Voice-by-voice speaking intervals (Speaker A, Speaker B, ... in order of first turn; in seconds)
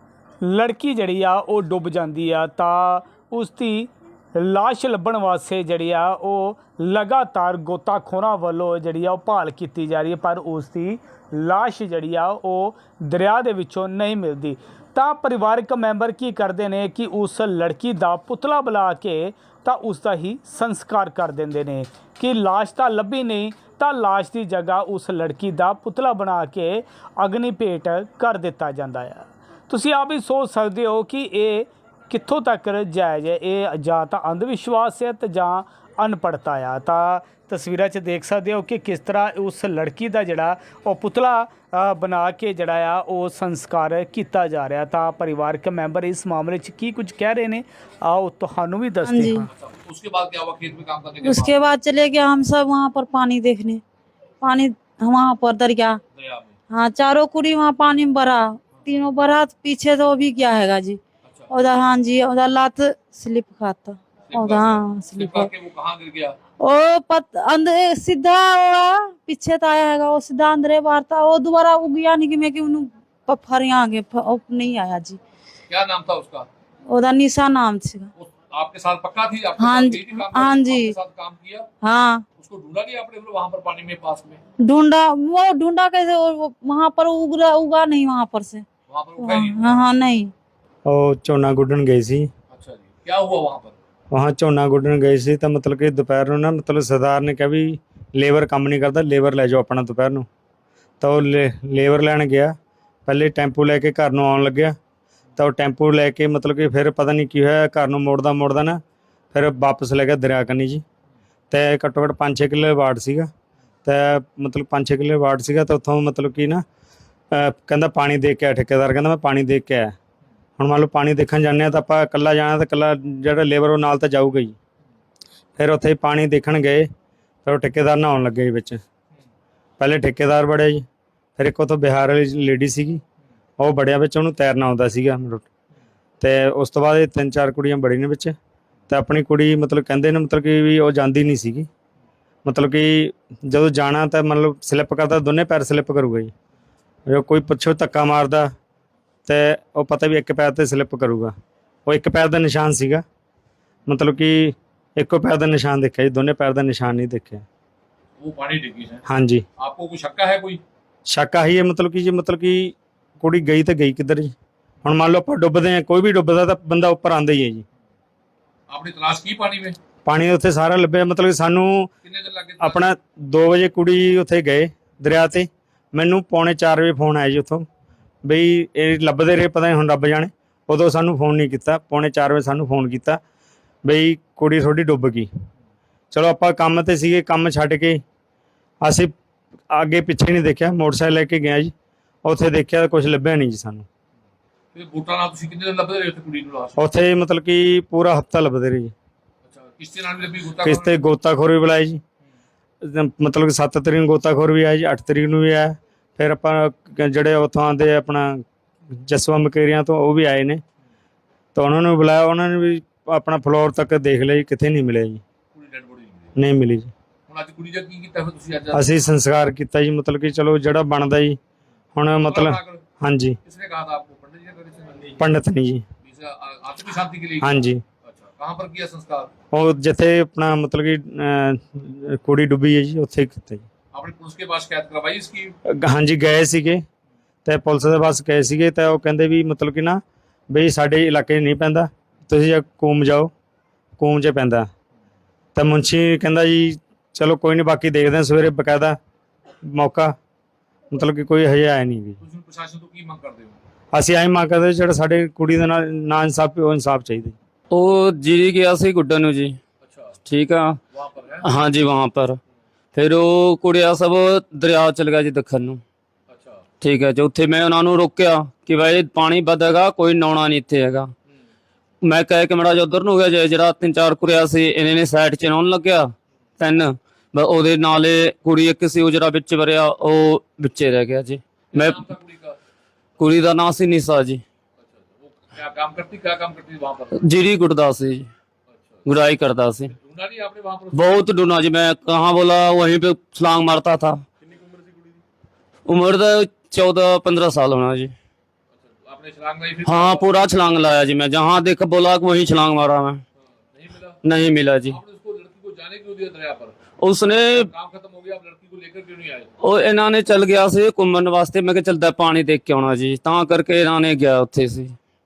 Speaker A: 0.4-49.5
Speaker B: 49.0-49.4, 51.2-53.8, 54.4-56.0, 56.7-65.5, 66.6-75.2, 76.9-78.1, 79.6-80.9, 81.8-82.2, 84.6-88.7, 89.2-90.3
Speaker C: 49.5-51.5, 56.2-56.5, 61.2-61.5, 64.3-66.4, 75.7-76.5, 78.2-81.7, 82.4-84.4, 88.9-89.9, 92.5-93.8, 158.2-159.0, 159.6-160.6, 168.7-169.8, 172.0-172.9, 194.7-196.9, 199.4-201.0, 215.5-216.3, 217.3-219.1, 222.2-222.8, 223.4-225.2, 226.0-229.3, 233.9-235.6, 252.2-253.6, 259.8-260.1, 260.9-261.5, 266.3-266.6, 281.7-282.6, 284.8-287.2, 289.9-291.2, 299.0-300.5, 303.7-304.2, 304.9-306.8, 307.6-309.5
Speaker D: 90.9-92.3, 94.1-100.2, 101.0-102.5, 103.1-104.8, 105.4-108.8, 109.3-110.8, 111.5-113.3, 113.8-116.6, 117.3-119.9, 120.6-124.5, 125.6-126.9, 127.5-128.8, 129.8-130.8, 131.4-133.0, 133.6-135.4, 136.2-138.4, 138.9-141.7, 142.4-146.3, 147.1-148.5, 149.2-151.3, 151.9-153.0, 153.9-157.4, 159.1-159.4, 161.1-167.6, 170.1-171.9, 172.6-177.7, 178.2-183.2, 183.8-185.3, 186.1-188.0, 188.8-189.1, 189.7-191.7, 192.2-193.9, 196.8-198.9, 200.6-202.0, 202.8-210.6, 211.6-215.2, 216.4-216.9, 218.7-221.4, 221.9-223.4, 225.2-225.8, 227.4-227.8, 229.5-233.6, 235.7-236.8, 237.4-240.0, 240.5-243.3, 244.0-244.7, 245.6-249.0, 249.7-250.1, 250.9-252.2, 253.9-257.3
Speaker E: 257.7-259.6, 260.2-260.8, 261.4-262.4, 262.9-265.8, 266.8-271.1, 272.0-282.0, 283.2-284.4, 287.1-288.3, 289.1-289.9, 290.9-294.2, 295.9-298.1, 299.8-303.2, 304.2-305.0, 307.0-307.7, 309.6-314.9